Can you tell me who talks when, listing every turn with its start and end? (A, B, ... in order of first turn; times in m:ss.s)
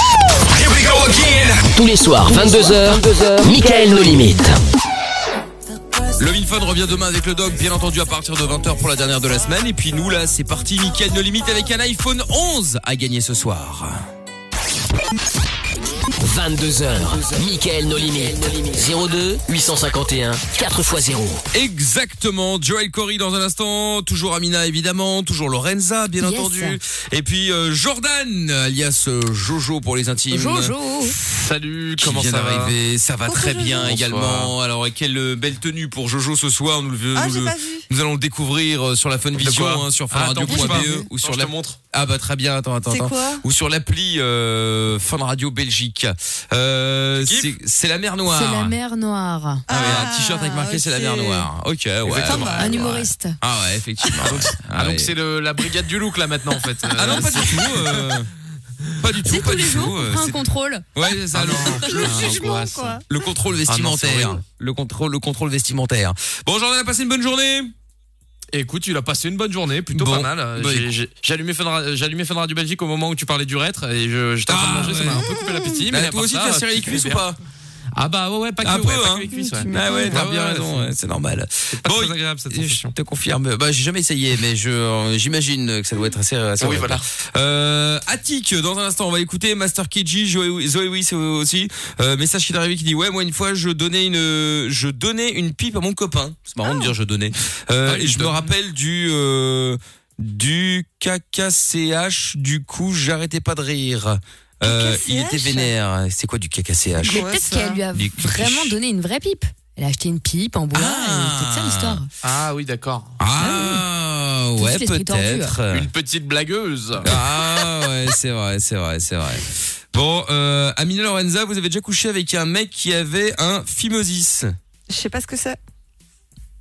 0:00.5-0:01.6 A
0:01.7-0:04.6 B
0:06.2-0:14.0 A
0:16.2-0:21.4 B
0:21.5-0:30.7 A
0:26.2-0:26.8 C
0:30.3-0:31.2 C
0:31.3-0:32.7 D
0:32.0-0:48.8 A
0:33.2-0:34.0 E
0:33.8-0:34.5 D
0:37.1-0:37.8 E
0:39.4-0:41.8 D
0:40.5-0:41.1 C
0:42.9-0:43.4 E
0:47.2-0:47.5 D
0:48.3-0:49.7 C
0:49.7-0:51.5 E
0:49.7-0:55.1 A
0:52.0-0:52.6 D
0:52.2-0:52.9 E
0:52.6-0:53.4 C
0:54.2-0:58.2 D
0:57.0-0:58.3 A
0:59.0-1:00.4 A
0:59.2-1:01.1 C
1:01.0-1:02.5 A
1:01.3-1:03.0 D
1:01.6-1:03.0 E
1:03.1-1:07.7 A
1:03.7-1:04.4 D
1:08.5-1:17.2 D
1:09.9-1:10.9 A
1:14.5-1:15.3 A
1:15.2-1:15.8 E
1:15.9-1:17.4 A
1:18.0-1:20.9 D
1:18.6-1:47.3 A
1:19.3-1:20.2 E
1:21.7-1:22.9 D
1:26.6-1:27.1 D
1:36.6-1:36.9 E
1:37.9-1:38.5 D
1:44.6-1:45.7 E
1:47.0-1:47.8 E
1:47.0-1:52.1 C
1:47.9-1:48.8 A
1:50.7-1:52.0 A
1:52.2-1:53.2 D
1:53.2-1:55.9 A
1:53.4-1:53.8 C
1:54.6-1:55.5 C
1:55.7-1:57.1 D
1:57.0-2:04.6 A
2:04.9-2:05.6 E